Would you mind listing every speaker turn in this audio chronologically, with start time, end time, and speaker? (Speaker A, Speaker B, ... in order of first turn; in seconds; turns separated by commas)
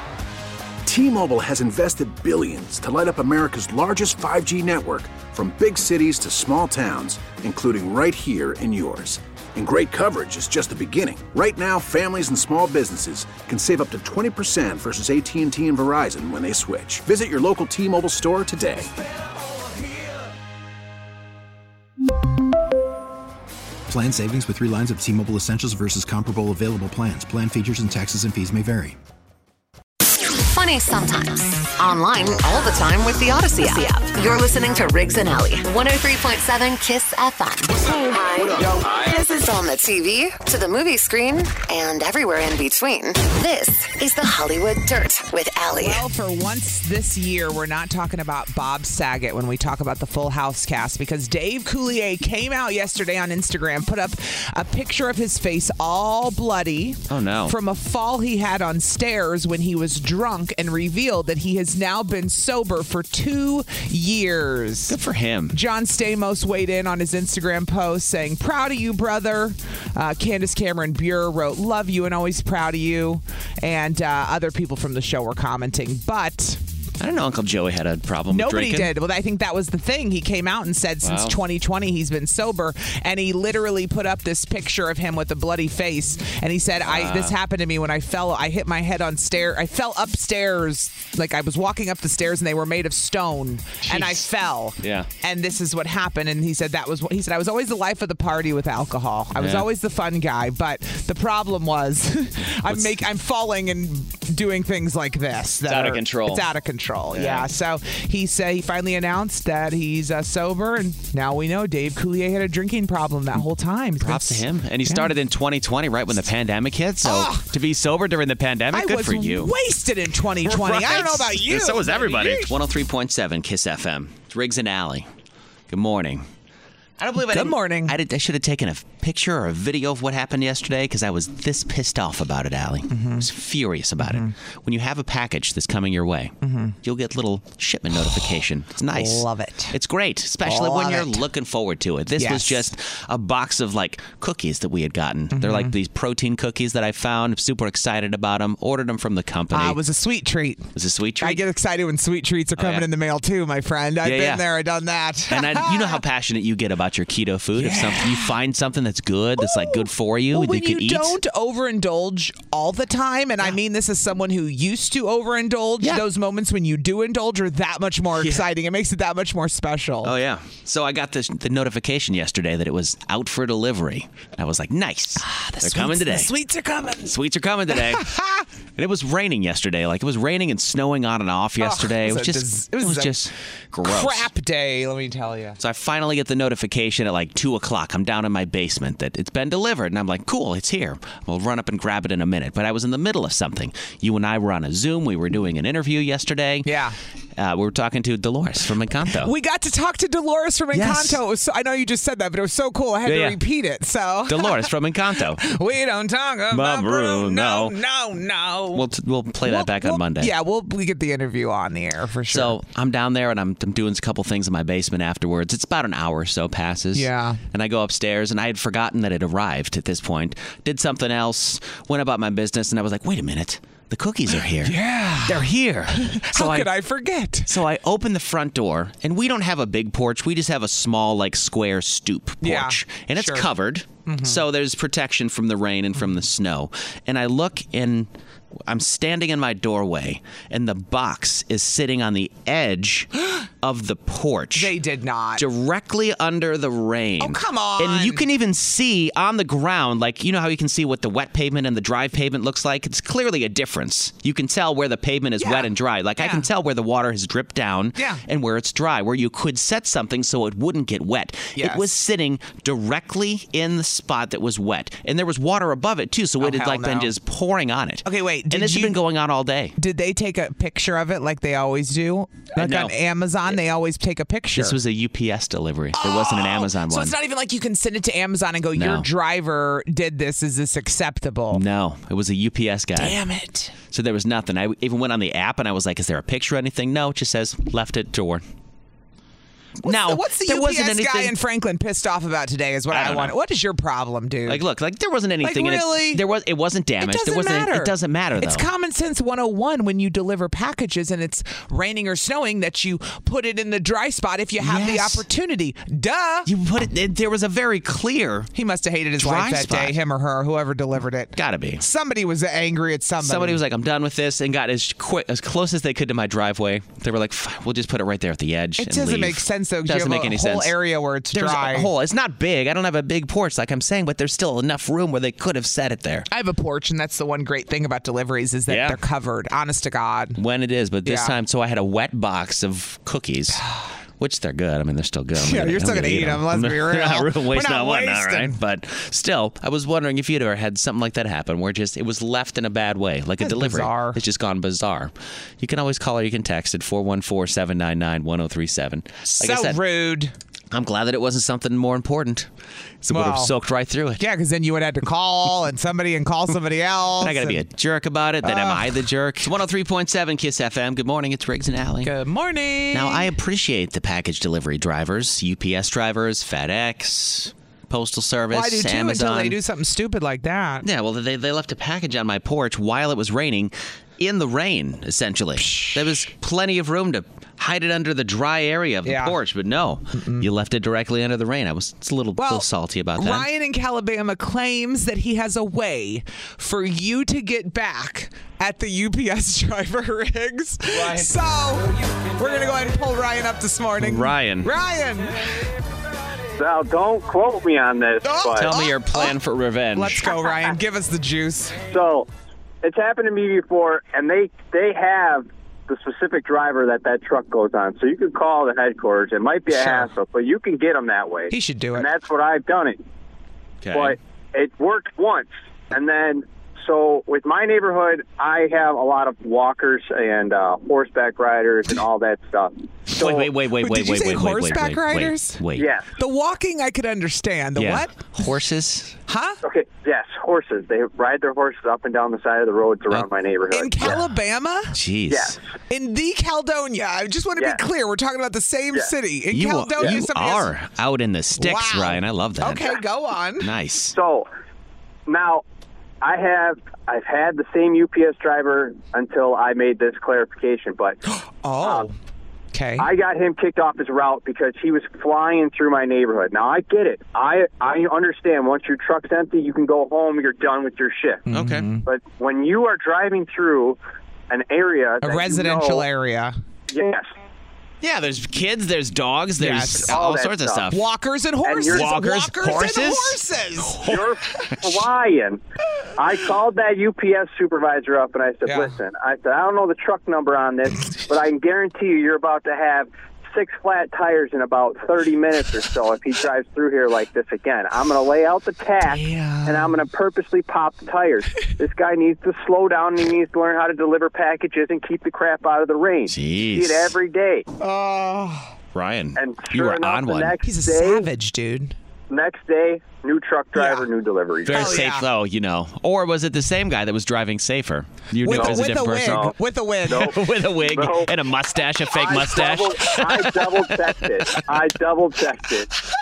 Speaker A: 0.9-18.9, Speaker B: 23.9-29.0, Speaker C: 30.2-46.0, Speaker D: 45.8-65.0, Speaker E: 57.1-57.6, Speaker E: 64.9-65.6, Speaker D: 65.5-76.6, Speaker E: 77.0-78.9, Speaker D: 78.3-115.1, Speaker E: 81.0-81.4, Speaker E: 86.8-87.3, Speaker E: 93.8-94.3, Speaker E: 94.8-95.1, Speaker E: 99.3-99.7, Speaker E: 102.7-102.9, Speaker E: 105.7-106.5, Speaker E: 107.1-107.5, Speaker E: 114.0-119.5, Speaker D: 117.0-117.5, Speaker D: 118.7-122.5, Speaker E: 120.4-125.1, Speaker E: 125.7-126.3, Speaker E: 127.0-149.8, Speaker D: 127.2-128.0, Speaker D: 132.9-133.3, Speaker D: 134.0-134.3, Speaker D: 136.4-136.8, Speaker D: 138.0-138.3, Speaker D: 138.9-139.8, Speaker D: 140.4-141.2, Speaker D: 142.2-142.7, Speaker D: 145.3-145.8, Speaker D: 149.5-156.0, Speaker E: 150.8-151.4, Speaker E: 152.6-152.9, Speaker E: 154.0-154.4, Speaker E: 155.3-161.2, Speaker D: 157.6-158.3, Speaker D: 159.4-170.2, Speaker E: 168.2-168.4, Speaker E: 170.0-176.3, Speaker D: 175.2-177.2, Speaker E: 177.0-178.1, Speaker D: 177.7-178.4, Speaker E: 178.8-184.3, Speaker D: 181.6-183.3, Speaker D: 183.8-185.6, Speaker E: 185.6-196.7, Speaker D: 196.7-197.0, Speaker E: 197.4-199.3, Speaker D: 199.1-208.9, Speaker E: 200.7-201.2, Speaker E: 203.1-203.4, Speaker E: 204.3-205.4, Speaker E: 206.5-207.8, Speaker E: 208.7-210.3, Speaker D: 209.4-212.6, Speaker E: 212.3-226.7, Speaker D: 216.9-217.4, Speaker D: 224.3-227.6, Speaker E: 227.5-238.1, Speaker D: 232.4-233.5, Speaker D: 234.1-234.4, Speaker E: 238.7-244.7, Speaker D: 244.5-245.4, Speaker E: 245.4-269.8, Speaker D: 247.2-248.2, Speaker D: 255.4-256.5, Speaker D: 258.0-258.2, Speaker D: 261.6-261.9, Speaker D: 266.4-267.1, Speaker D: 268.1-269.0, Speaker D: 269.8-274.8, Speaker E: 272.6-272.9, Speaker E: 274.6-277.1, Speaker D: 275.9-281.6, Speaker E: 278.8-279.1, Speaker E: 281.5-283.2, Speaker D: 283.0-283.8, Speaker E: 283.9-288.4, Speaker E: 289.8-291.3, Speaker D: 289.8-294.6, Speaker E: 292.9-293.3, Speaker E: 294.5-298.7, Speaker D: 295.4-296.2, Speaker D: 297.0-306.5, Speaker E: 304.6-305.2, Speaker E: 306.5-308.5, Speaker D: 308.6-313.6, Speaker E: 309.2-310.0, Speaker E: 311.4-311.8, Speaker E: 313.2-320.8, Speaker D: 318.8-321.9, Speaker E: 321.3-326.3, Speaker D: 326.3-330.4, Speaker E: 328.7-329.0, Speaker E: 330.4-333.6, Speaker D: 331.1-331.4, Speaker D: 333.6-333.9, Speaker E: 334.2-349.8, Speaker D: 335.4-338.6, Speaker D: 343.4-344.2, Speaker D: 349.3-350.3, Speaker E: 350.7-352.5, Speaker E: 353.0-354.2, Speaker D: 353.1-353.5, Speaker D: 354.2-357.6, Speaker E: 357.2-362.1, Speaker D: 358.4-359.1, Speaker D: 362.0-363.3, Speaker E: 362.9-369.6, Speaker D: 368.5-370.9, Speaker E: 370.8-383.5, Speaker D: 375.6-376.2, Speaker D: 379.1-379.4, Speaker D: 380.1-380.5, Speaker D: 382.4-395.7, Speaker E: 394.0-394.7, Speaker F: 396.6-398.7, Speaker D: 398.2-399.4, Speaker E: 398.6-400.3, Speaker D: 399.9-401.8, Speaker F: 401.9-402.3, Speaker F: 402.8-413.0, Speaker D: 409.7-410.1, Speaker D: 411.5-412.1, Speaker E: 413.8-414.2, Speaker F: 413.9-423.5, Speaker E: 423.2-425.9, Speaker D: 423.8-425.6, Speaker F: 425.8-426.2, Speaker D: 426.2-428.1, Speaker E: 427.8-429.2, Speaker D: 429.3-429.6, Speaker F: 429.6-434.1, Speaker D: 433.7-434.9, Speaker E: 434.9-435.6, Speaker F: 435.3-435.6, Speaker D: 435.9-440.7, Speaker F: 437.6-437.8, Speaker E: 439.5-442.9, Speaker D: 441.6-443.7, Speaker E: 443.6-444.2, Speaker F: 444.1-444.5, Speaker F: 445.3-445.6, Speaker F: 446.2-451.2, Speaker D: 451.3-452.1, Speaker F: 451.8-452.1, Speaker D: 452.7-453.1, Speaker F: 453.0-461.4, Speaker D: 461.5-462.0, Speaker E: 461.5-461.9, Speaker F: 462.1-464.0, Speaker F: 464.5-466.1, Speaker D: 465.2-466.6, Speaker F: 466.9-467.3, Speaker E: 468.0-471.0, Speaker D: 469.6-470.2, Speaker F: 470.0-470.9, Speaker D: 470.9-474.3, Speaker F: 471.6-472.1, Speaker E: 471.9-473.4, Speaker F: 474.0-475.6, Speaker F: 476.2-497.7, Speaker D: 478.7-478.9, Speaker D: 489.0-490.0, Speaker E: 496.3-497.2, Speaker D: 497.8-498.7, Speaker E: 498.9-500.5, Speaker F: 499.4-501.3, Speaker D: 500.6-501.9, Speaker F: 502.3-505.0, Speaker D: 503.8-504.1, Speaker E: 504.7-509.5, Speaker D: 504.7-505.3, Speaker D: 508.4-510.4, Speaker F: 508.5-509.5, Speaker E: 510.1-514.6, Speaker F: 510.1-511.3, Speaker F: 512.1-515.9, Speaker D: 512.4-513.1